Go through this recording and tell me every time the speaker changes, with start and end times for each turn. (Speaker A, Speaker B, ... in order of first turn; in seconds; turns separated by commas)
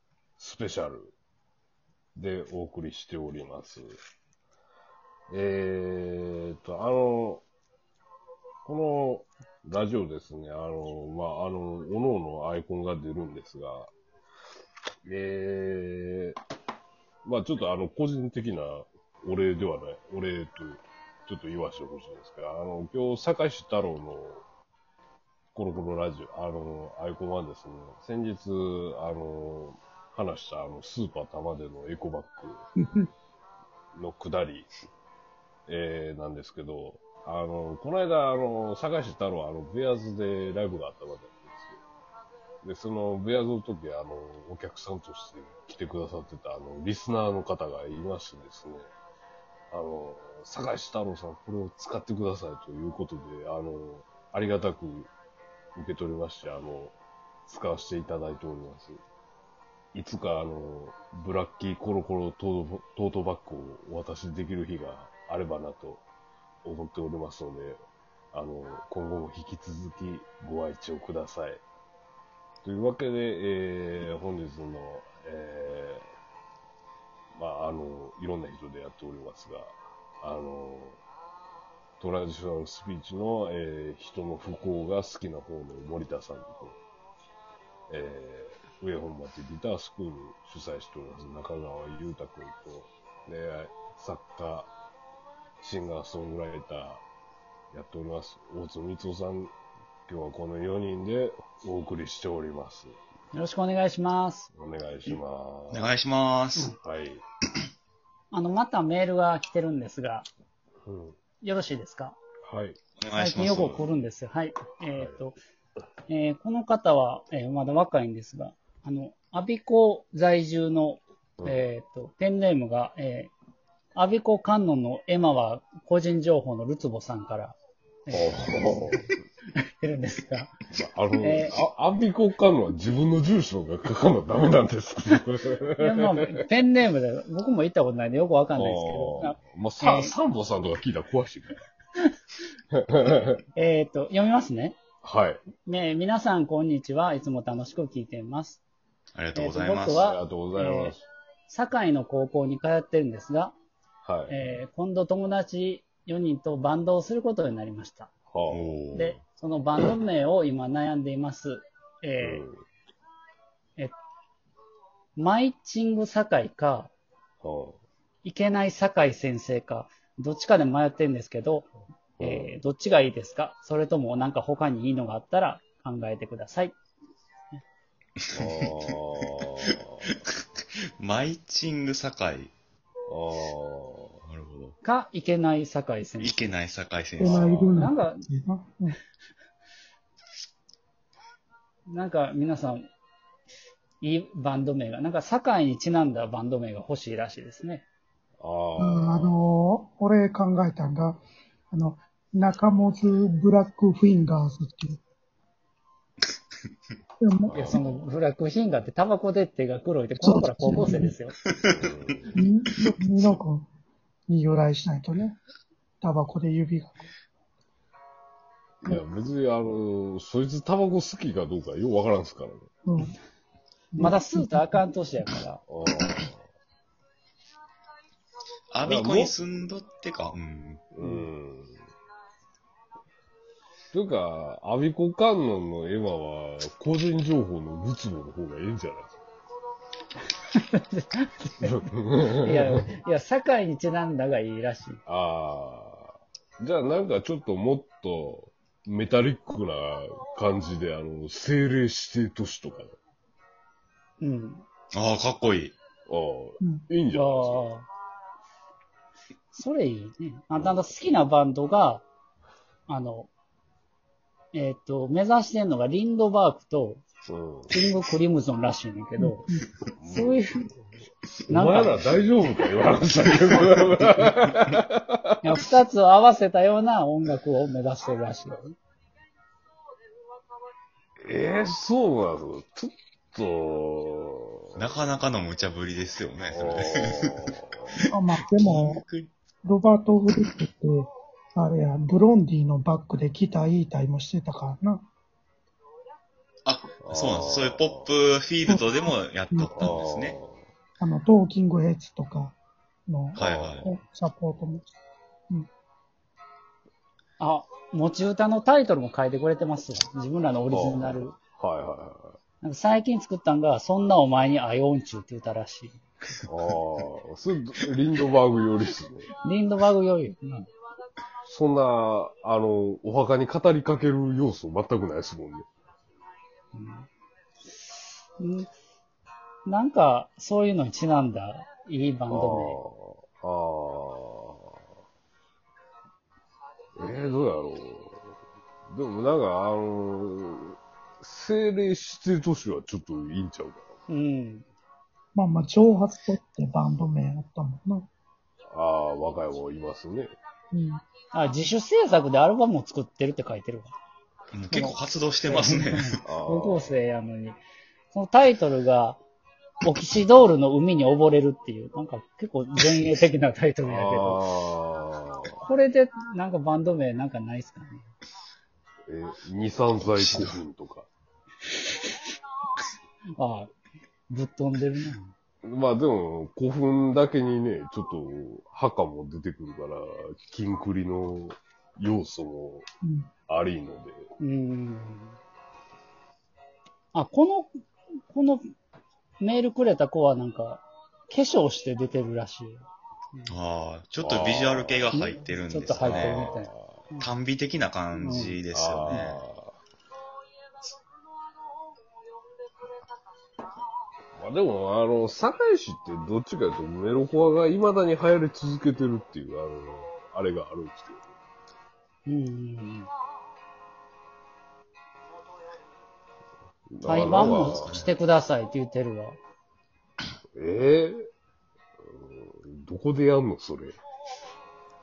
Speaker A: 0.4-1.1, Speaker A: 2.1-4.0, Speaker A: 5.3-7.4, Speaker A: 8.6-13.9, Speaker A: 15.0-16.4, Speaker A: 17.2-24.4, Speaker A: 25.5-32.6, Speaker B: 32.8-33.1, Speaker A: 33.9-34.7, Speaker A: 35.7-41.8, Speaker A: 42.6-48.9, Speaker A: 49.7-55.1, Speaker A: 55.8-56.9, Speaker A: 57.5-59.0, Speaker A: 59.9-66.0, Speaker A: 66.6-67.8, Speaker A: 68.3-71.6, Speaker A: 72.6-76.1, Speaker A: 77.3-81.0, Speaker A: 82.0-86.8, Speaker A: 87.9-94.7, Speaker A: 95.6-97.0, Speaker A: 97.7-99.5, Speaker A: 100.1-102.9, Speaker C: 103.3-104.5, Speaker A: 104.5-105.9, Speaker D: 105.7-106.7, Speaker A: 106.7-107.2, Speaker C: 108.3-110.3, Speaker A: 110.8-111.2, Speaker C: 111.4-112.2, Speaker A: 112.5-112.8, Speaker D: 113.0-113.8, Speaker C: 113.2-115.4, Speaker C: 116.1-123.3, Speaker C: 123.9-130.5, Speaker A: 128.1-129.0, Speaker A: 130.7-136.3, Speaker C: 131.2-131.5, Speaker C: 135.8-140.1, Speaker A: 138.5-141.6, Speaker A: 142.7-143.4, Speaker C: 143.5-144.8, Speaker A: 145.0-145.4, Speaker C: 145.6-148.6, Speaker D: 149.1-150.0, Speaker C: 149.3-153.5, Speaker A: 149.9-151.0, Speaker A: 154.0-154.3, Speaker C: 154.3-158.1, Speaker A: 158.3-158.7, Speaker D: 158.5-159.2, Speaker C: 158.9-162.4, Speaker A: 162.2-162.6, Speaker C: 165.2-166.9, Speaker A: 167.4-167.8, Speaker C: 168.2-171.7, Speaker A: 172.2-172.6, Speaker C: 172.2-176.8, Speaker A: 178.3-180.0, Speaker D: 179.7-180.1, Speaker D: 181.0-182.5, Speaker A: 183.1-184.2, Speaker D: 184.2-184.7, Speaker C: 184.8-186.5, Speaker D: 186.2-187.5, Speaker B: 187.2-189.0, Speaker C: 187.3-188.2, Speaker A: 187.3-187.8, Speaker C: 191.9-192.8, Speaker C: 194.0-197.8, Speaker A: 198.4-199.3, Speaker B: 198.8-201.2, Speaker B: 201.7-205.0, Speaker B: 207.2-207.8, Speaker A: 207.5-207.8, Speaker C: 207.5-211.3, Speaker B: 210.2-211.1, Speaker A: 211.7-212.3, Speaker B: 212.3-213.7, Speaker B: 214.3-215.4, Speaker B: 216.0-217.1, Speaker A: 218.8-222.7, Speaker B: 222.8-223.1, Speaker B: 223.9-224.8, Speaker C: 224.0-225.6, Speaker A: 225.7-226.4, Speaker D: 228.7-230.8, Speaker A: 228.8-229.3, Speaker A: 230.9-231.8, Speaker A: 233.9-239.2, Speaker C: 240.5-245.0, Speaker A: 241.6-242.8, Speaker A: 245.1-252.9, Speaker C: 254.2-254.6, Speaker D: 254.9-255.7, Speaker A: 256.1-257.7, Speaker C: 257.1-257.9, Speaker C: 259.5-262.0, Speaker A: 260.5-261.1, Speaker C: 262.9-263.3, Speaker C: 264.5-267.0, Speaker A: 267.3-267.8, Speaker C: 267.7-269.4, Speaker B: 269.2-269.6, Speaker A: 270.0-270.4, Speaker C: 270.1-270.7, Speaker A: 271.5-275.3, Speaker C: 271.5-272.1, Speaker C: 275.4-278.8, Speaker A: 281.2-284.9, Speaker D: 284.8-289.3, Speaker A: 286.5-287.9, Speaker B: 288.1-289.0, Speaker B: 289.6-295.1, Speaker D: 296.6-300.4, Speaker A: 297.0-298.1, Speaker B: 298.6-299.9, Speaker A: 299.8-300.6, Speaker B: 301.0-304.9, Speaker D: 303.3-303.9, Speaker A: 303.4-303.8, Speaker C: 307.4-311.3, Speaker A: 310.7-312.4, Speaker C: 312.6-316.4, Speaker A: 316.5-319.3, Speaker C: 319.4-320.7, Speaker A: 321.4-325.7, Speaker C: 326.7-327.1, Speaker C: 328.4-328.7, Speaker C: 329.6-332.8, Speaker A: 332.3-334.7, Speaker A: 336.9-338.3, Speaker A: 338.9-343.9, Speaker C: 344.1-344.6, Speaker B: 345.3-348.1, Speaker A: 348.7-350.3, Speaker B: 350.7-351.0, Speaker C: 351.3-353.9, Speaker D: 354.5-356.2, Speaker C: 354.7-357.6, Speaker A: 356.2-356.9, Speaker C: 358.1-359.2, Speaker C: 359.8-364.4, Speaker A: 363.8-365.6, Speaker C: 365.6-368.1, Speaker A: 369.1-371.1, Speaker D: 370.0-370.6, Speaker C: 373.4-373.7, Speaker C: 374.3-375.3, Speaker A: 375.6-382.9, Speaker B: 383.0-383.3, Speaker A: 383.5-384.2, Speaker C: 384.4-385.4, Speaker C: 387.1-387.7, Speaker C: 388.3-388.6, Speaker C: 389.4-393.5, Speaker D: 393.5-396.5, Speaker A: 394.2-395.1, Speaker C: 395.1-397.3, Speaker A: 396.0-396.9, Speaker D: 397.2-399.4, Speaker C: 398.1-398.6, Speaker A: 398.7-399.8, Speaker A: 404.4-411.2, Speaker C: 412.2-413.1, Speaker A: 416.9-417.9, Speaker C: 417.0-419.4, Speaker D: 417.1-418.1, Speaker A: 420.5-421.2, Speaker A: 422.0-424.0